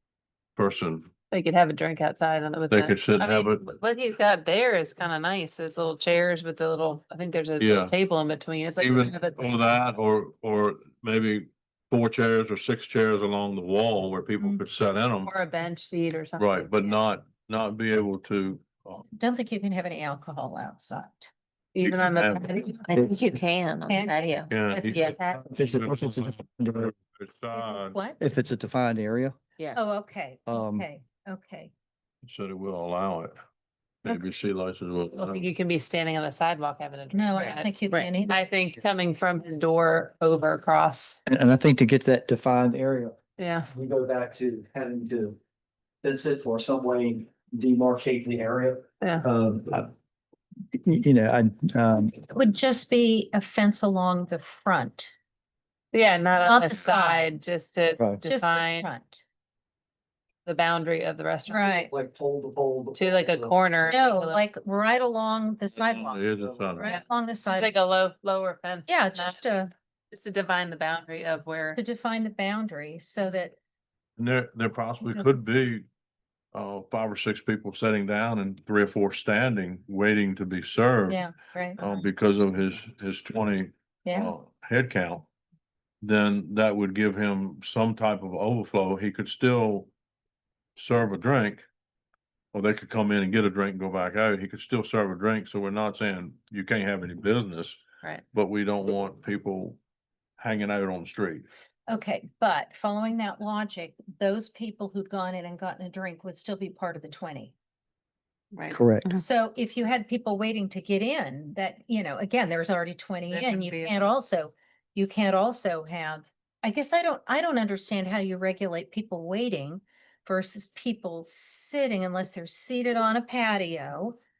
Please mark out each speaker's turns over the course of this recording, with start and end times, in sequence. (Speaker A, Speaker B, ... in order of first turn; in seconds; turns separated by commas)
Speaker A: 0.6-1.1, Speaker B: 1.3-9.6, Speaker A: 2.7-3.6, Speaker A: 7.6-7.9, Speaker A: 8.8-15.3, Speaker B: 15.2-17.0, Speaker A: 16.4-19.0, Speaker C: 19.1-21.3, Speaker B: 21.7-22.8, Speaker A: 21.8-22.6, Speaker D: 22.9-25.1, Speaker E: 22.9-23.3, Speaker C: 23.9-24.4, Speaker A: 24.5-28.0, Speaker B: 24.7-25.6, Speaker E: 25.3-26.9, Speaker C: 27.5-28.2, Speaker E: 28.2-29.4, Speaker C: 29.7-31.7, Speaker E: 30.5-30.9, Speaker A: 32.2-33.4, Speaker A: 34.0-35.5, Speaker B: 35.1-37.7, Speaker C: 37.1-38.4, Speaker B: 38.3-41.2, Speaker E: 41.2-43.1, Speaker B: 43.4-43.7, Speaker E: 43.7-45.4, Speaker E: 46.0-49.9, Speaker E: 50.7-52.2, Speaker C: 52.3-55.1, Speaker B: 55.9-58.9, Speaker C: 56.4-57.5, Speaker C: 58.2-59.2, Speaker B: 60.4-61.9, Speaker C: 61.5-61.9, Speaker E: 61.9-63.5, Speaker B: 62.9-64.4, Speaker C: 63.9-66.2, Speaker A: 65.7-66.9, Speaker E: 66.4-66.8, Speaker C: 66.8-67.7, Speaker B: 66.8-69.4, Speaker C: 68.9-69.7, Speaker B: 70.1-71.8, Speaker C: 71.7-73.5, Speaker A: 74.2-75.8, Speaker C: 75.0-75.3, Speaker A: 76.5-85.3, Speaker C: 81.1-81.8, Speaker C: 84.0-84.3, Speaker A: 86.0-89.9, Speaker A: 90.8-91.7, Speaker A: 92.5-97.8, Speaker A: 98.3-99.8, Speaker A: 100.4-101.5, Speaker C: 101.9-107.5, Speaker B: 108.5-109.2, Speaker E: 108.7-109.1, Speaker C: 109.1-124.2, Speaker B: 113.3-114.0